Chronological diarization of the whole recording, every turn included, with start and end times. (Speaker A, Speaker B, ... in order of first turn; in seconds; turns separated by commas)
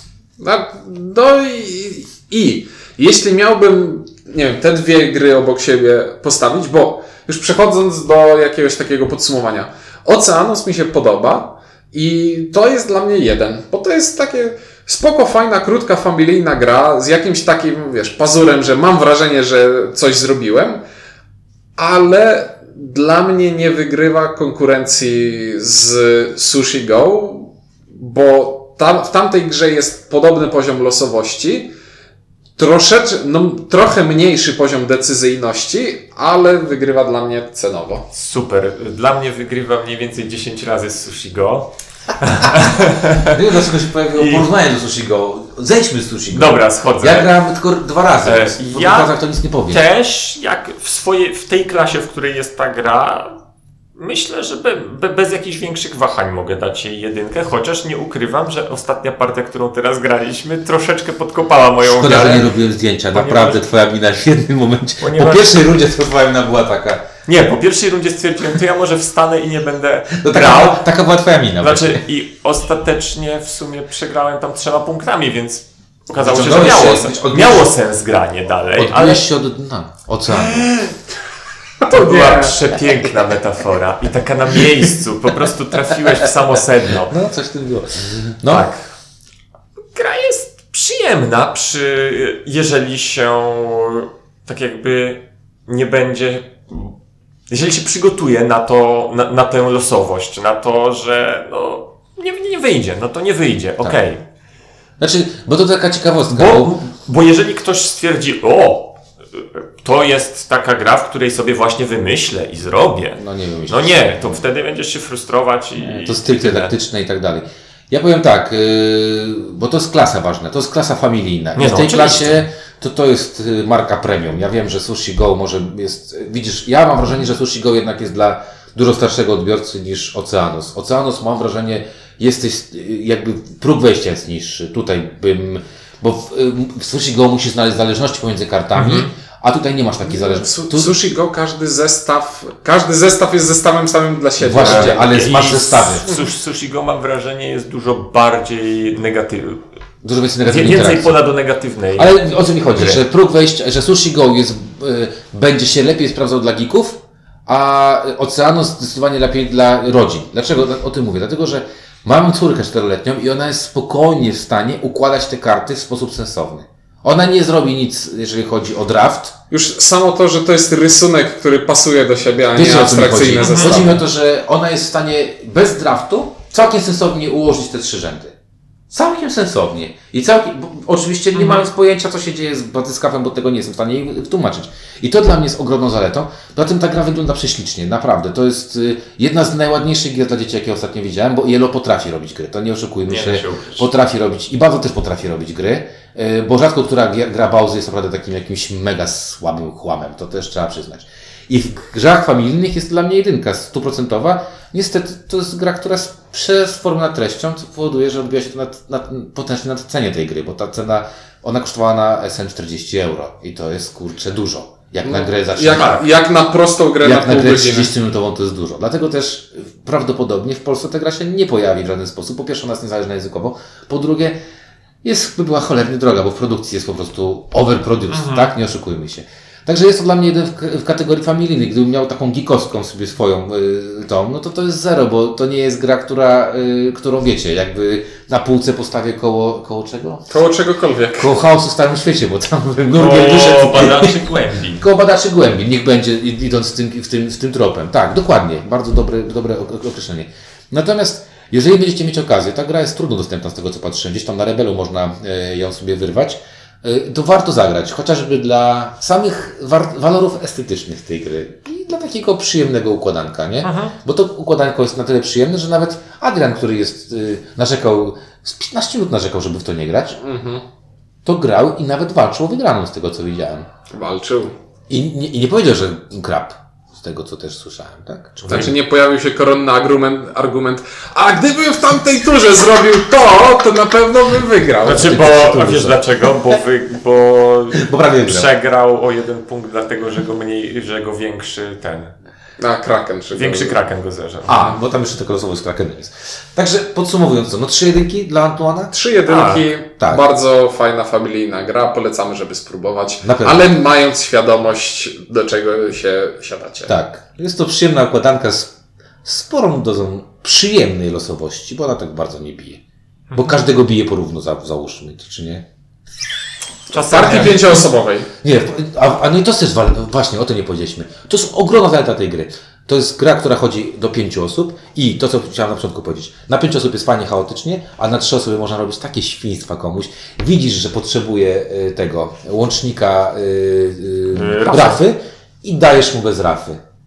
Speaker A: 0.4-20.8, Speaker A: 21.8-31.7, Speaker A: 32.6-38.0, Speaker B: 38.1-43.4, Speaker C: 43.2-49.8, Speaker B: 44.1-44.5, Speaker B: 46.3-47.3, Speaker B: 48.2-49.1, Speaker B: 49.7-53.4, Speaker B: 53.9-62.5, Speaker C: 61.8-67.0, Speaker B: 63.1-63.6, Speaker B: 65.0-65.6, Speaker B: 67.2-70.8, Speaker C: 70.1-72.0, Speaker B: 71.6-79.2, Speaker C: 76.2-77.7, Speaker C: 78.8-80.7, Speaker A: 80.4-80.9, Speaker A: 81.8-82.6, Speaker B: 81.9-87.2, Speaker C: 87.0-88.7, Speaker B: 88.5-88.8, Speaker B: 89.9-96.9, Speaker B: 97.5-104.2, Speaker C: 105.0-106.7, Speaker B: 106.3-116.7, Speaker C: 113.2-114.4, Speaker C: 115.8-141.1, Speaker B: 121.5-122.4, Speaker B: 138.7-139.1, Speaker A: 140.1-145.0, Speaker C: 144.4-146.1, Speaker B: 144.6-149.6, Speaker C: 150.0-151.2, Speaker B: 150.4-152.1, Speaker C: 151.9-169.3, Speaker B: 152.7-153.0, Speaker A: 169.5-174.0, Speaker C: 172.6-178.3, Speaker B: 173.4-173.8, Speaker C: 178.9-216.0, Speaker B: 181.3-181.6, Speaker B: 193.1-193.9, Speaker A: 215.1-217.9, Speaker B: 215.7-216.0, Speaker C: 217.0-224.4, Speaker C: 225.0-240.3, Speaker B: 228.1-228.5, Speaker A: 240.3-241.3, Speaker C: 241.2-270.2, Speaker B: 242.9-244.8, Speaker B: 263.6-263.9, Speaker A: 270.2-270.6, Speaker C: 271.2-273.7, Speaker A: 273.9-274.5, Speaker C: 274.9-278.7, Speaker B: 278.4-278.7, Speaker A: 278.5-285.1, Speaker B: 284.8-292.1, Speaker C: 284.8-286.0, Speaker C: 287.7-288.5, Speaker A: 292.6-293.8, Speaker B: 293.3-294.7, Speaker C: 294.4-298.9, Speaker A: 298.9-306.9, Speaker B: 299.3-299.6, Speaker C: 303.2-303.7, Speaker C: 306.9-308.7, Speaker C: 309.2-312.8, Speaker B: 313.3-313.6, Speaker C: 313.3-315.6, Speaker B: 316.9-317.8, Speaker A: 316.9-318.3, Speaker C: 317.1-317.8, Speaker C: 318.4-336.8, Speaker B: 334.3-335.0